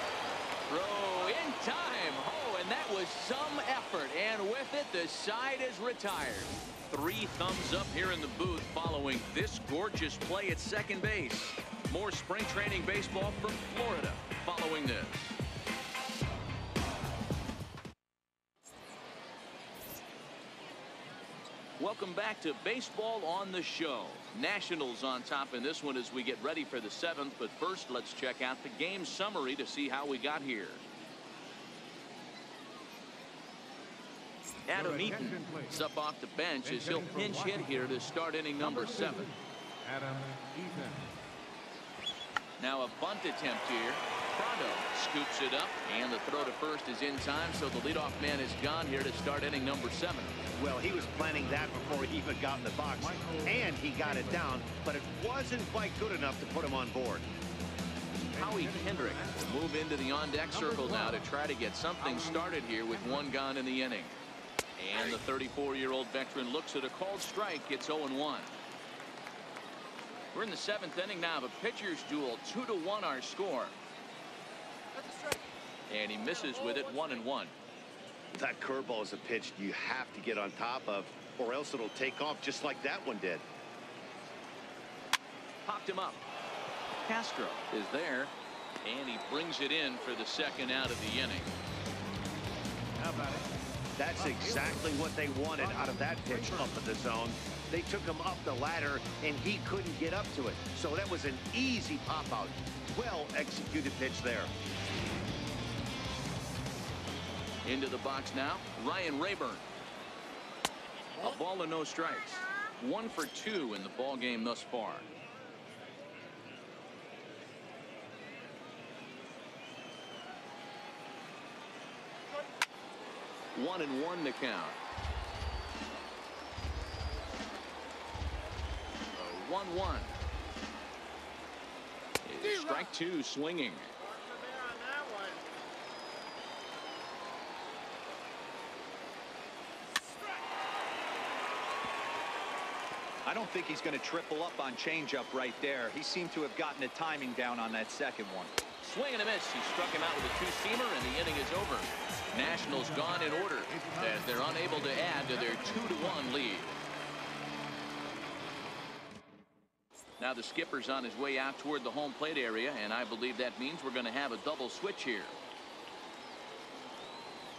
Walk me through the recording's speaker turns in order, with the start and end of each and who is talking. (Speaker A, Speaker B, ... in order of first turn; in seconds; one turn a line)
Speaker A: 0.7-15.4
Speaker A: 21.8-30.8
Speaker A: 34.7-39.3
Speaker B: 34.7-35.8
Speaker B: 36.6-38.0
Speaker B: 38.6-41.1
Speaker A: 42.6-50.4
Speaker C: 50.6-57.3
Speaker B: 51.2-51.8
Speaker B: 53.0-54.6
Speaker A: 58.2-64.1
Speaker B: 58.3-59.5
Speaker B: 60.5-61.2
Speaker B: 62.0-63.3
Speaker A: 64.8-68.5
Speaker A: 70.3-73.8
Speaker A: 75.9-77.5
Speaker C: 78.3-83.5
Speaker A: 85.6-86.2
Speaker A: 87.0-91.5
Speaker B: 93.0-93.5
Speaker C: 94.0-104.5
Speaker B: 94.1-96.8
Speaker A: 107.6-109.6
Speaker A: 111.2-115.0
Speaker A: 123.5-124.8
Speaker A: 129.1-130.1
Speaker A: 132.2-133.9
Speaker D: 143.2-148.6
Speaker A: 148.8-156.7
Speaker B: 152.7-156.3
Speaker A: 160.2-165.3